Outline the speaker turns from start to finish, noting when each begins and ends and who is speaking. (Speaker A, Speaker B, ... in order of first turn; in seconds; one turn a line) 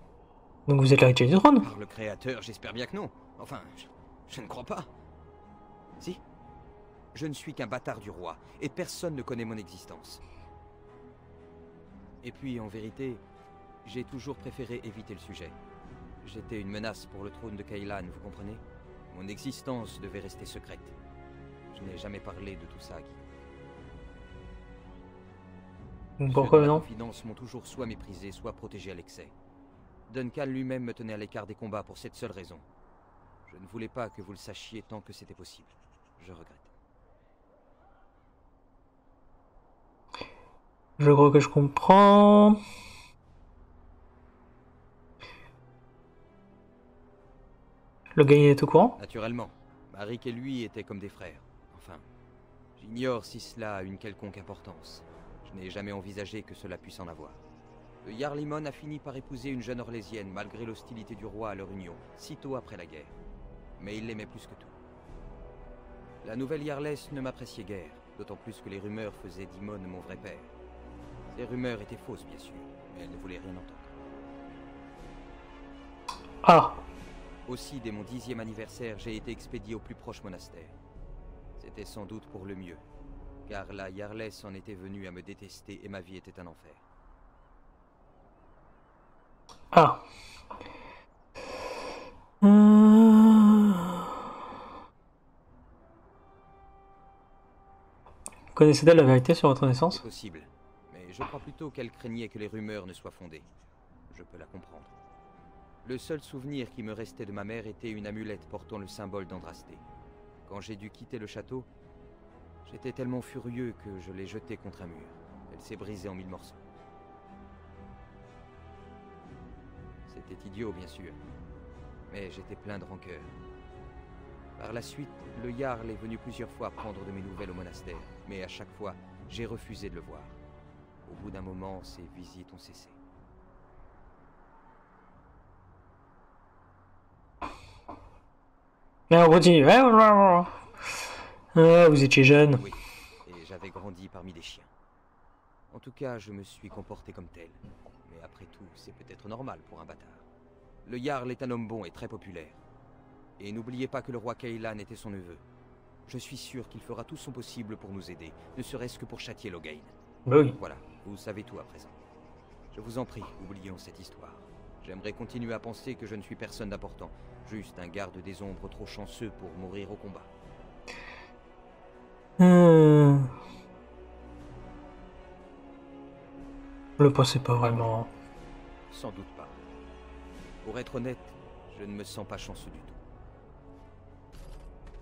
Speaker A: 0.7-1.7
Speaker B: 1.6-4.9
Speaker B: 7.1-10.2
Speaker B: 12.2-13.2
Speaker B: 13.8-15.6
Speaker B: 16.2-20.9
Speaker B: 21.7-23.2
Speaker A: 26.2-26.8
Speaker B: 26.3-29.3
Speaker B: 30.1-32.6
Speaker B: 33.5-36.7
Speaker A: 41.0-42.6
Speaker A: 48.1-49.0
Speaker B: 49.0-52.0
Speaker B: 52.8-57.4
Speaker B: 58.0-63.1
Speaker B: 63.8-64.8
Speaker B: 66.2-70.5
Speaker B: 71.3-73.9
Speaker A: 76.4-76.8
Speaker B: 77.5-80.7
Speaker B: 81.6-82.8
Speaker B: 83.5-86.8
Speaker A: 89.7-90.0
Speaker A: 92.4-94.0
Speaker A: 98.5-100.0
Speaker B: 99.9-103.5
Speaker B: 104.1-104.9
Speaker B: 105.8-109.8
Speaker B: 110.5-111.7
Speaker B: 112.6-116.6
Speaker B: 120.1-121.2
Speaker B: 122.1-123.3
Speaker B: 124.6-130.3
Speaker B: 131.0-133.0
Speaker A: 139.1-140.5
Speaker A: 141.5-142.6
Speaker B: 142.5-144.7
Speaker B: 145.7-150.2
Speaker B: 150.8-152.6
Speaker B: 153.4-155.4
Speaker B: 156.1-159.9
Speaker A: 160.2-160.6
Speaker B: 160.5-162.0
Speaker B: 162.7-170.3
Speaker A: 172.4-173.3
Speaker A: 177.0-178.1
Speaker B: 178.9-179.6
Speaker B: 180.6-183.0